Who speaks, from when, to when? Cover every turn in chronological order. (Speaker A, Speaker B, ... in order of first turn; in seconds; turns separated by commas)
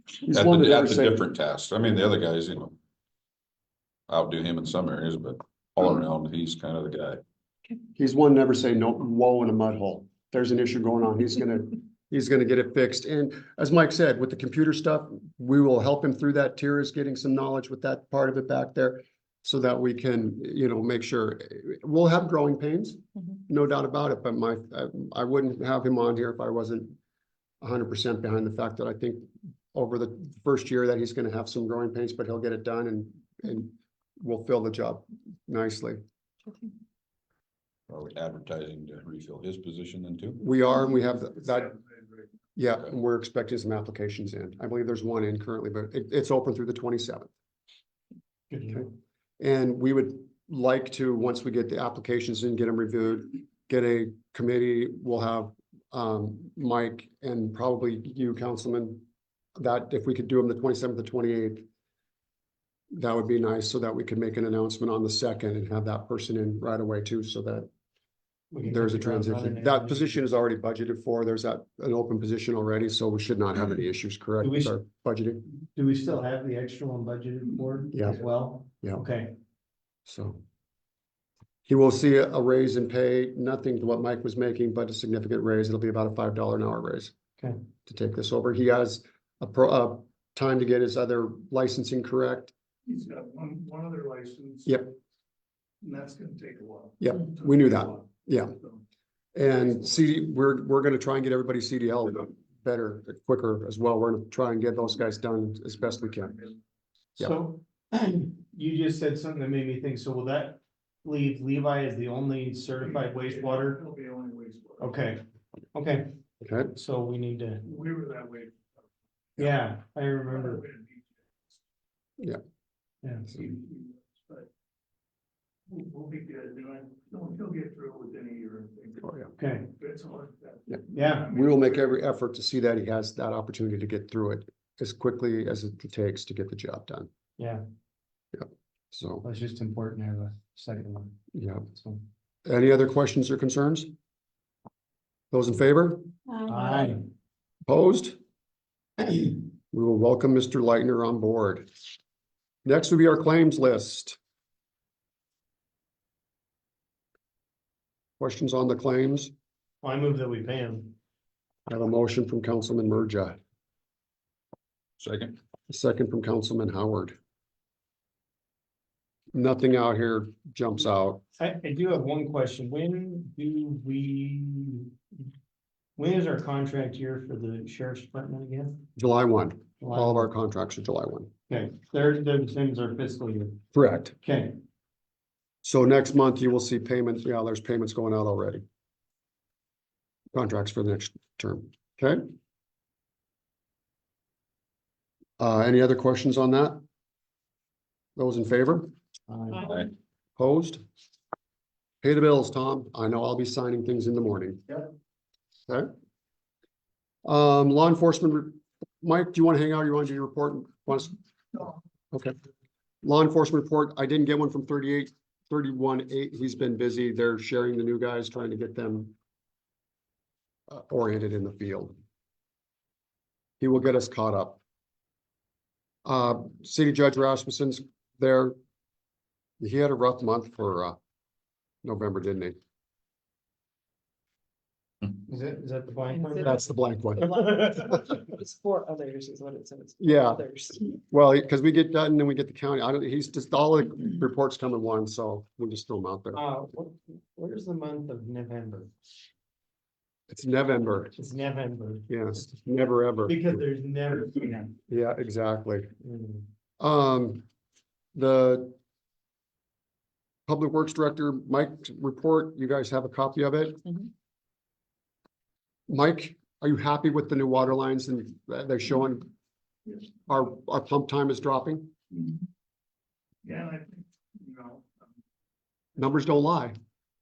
Speaker A: 0.2-2.7, Speaker B: 0.3-1.2, Speaker A: 4.1-7.2, Speaker B: 8.0-27.0, Speaker B: 27.6-36.0, Speaker A: 37.9-40.4, Speaker B: 40.4-41.8, Speaker C: 41.4-42.3, Speaker B: 42.5-47.3, Speaker D: 48.5-48.9, Speaker B: 49.4-59.0, Speaker B: 59.6-61.7, Speaker B: 62.9-67.7, Speaker D: 68.5-70.2, Speaker B: 68.6-75.4, Speaker D: 74.4-74.8, Speaker D: 75.7-79.3, Speaker B: 77.9-78.2, Speaker B: 80.1-80.4, Speaker B: 81.7-87.1, Speaker B: 87.8-92.5, Speaker C: 92.8-94.8, Speaker B: 94.7-95.0, Speaker C: 95.8-98.8, Speaker B: 97.0-98.5, Speaker B: 99.3-106.3, Speaker C: 99.4-100.0, Speaker C: 105.8-106.6, Speaker D: 107.2-113.8, Speaker C: 112.8-115.0, Speaker D: 114.8-115.2, Speaker D: 115.7-117.6, Speaker B: 116.4-116.7, Speaker C: 117.6-118.8, Speaker D: 119.4-120.6, Speaker C: 120.3-121.6, Speaker D: 123.0-123.3, Speaker C: 123.2-124.5, Speaker C: 125.7-129.2, Speaker B: 129.0-129.3, Speaker D: 129.4-129.7, Speaker C: 129.7-131.8, Speaker B: 130.7-137.1, Speaker D: 130.9-131.3, Speaker D: 137.4-137.6, Speaker B: 138.3-139.2, Speaker D: 139.2-141.1, Speaker B: 141.3-141.6, Speaker D: 141.7-142.0, Speaker B: 142.4-143.9, Speaker B: 145.3-146.1, Speaker D: 146.4-147.0, Speaker B: 147.7-148.2, Speaker B: 149.7-151.7, Speaker B: 152.6-154.2, Speaker B: 158.2-159.3, Speaker D: 159.8-160.9, Speaker B: 161.7-163.4, Speaker A: 165.0-165.4, Speaker B: 165.7-167.1, Speaker B: 169.3-171.2, Speaker D: 171.4-174.9, Speaker D: 176.0-178.8, Speaker B: 178.9-181.3, Speaker D: 179.8-180.3, Speaker D: 181.5-183.6, Speaker B: 183.7-184.1, Speaker D: 184.2-184.6, Speaker B: 185.6-188.6, Speaker B: 190.3-192.3, Speaker B: 195.4-196.8, Speaker B: 198.2-198.9, Speaker D: 199.3-199.7, Speaker B: 200.4-200.8, Speaker B: 202.0-204.8, Speaker B: 207.2-212.3, Speaker B: 213.0-219.1, Speaker B: 220.7-221.9, Speaker B: 223.6-224.6, Speaker B: 226.0-228.5, Speaker B: 229.6-230.9, Speaker B: 231.8-232.6, Speaker D: 235.2-236.7, Speaker E: 236.1-236.5, Speaker B: 236.4-237.8, Speaker D: 237.2-238.1, Speaker E: 237.2-240.8, Speaker B: 240.0-246.4, Speaker D: 246.3-248.9, Speaker B: 250.3-251.1, Speaker D: 251.1-252.2, Speaker B: 252.1-253.6, Speaker D: 253.3-254.7, Speaker B: 254.9-255.9, Speaker D: 256.0-256.5, Speaker B: 256.8-257.4, Speaker B: 258.1-258.8, Speaker B: 260.5-264.0, Speaker B: 265.9-269.3, Speaker B: 270.3-271.9, Speaker C: 272.1-272.4, Speaker C: 273.4-275.1, Speaker B: 276.0-276.8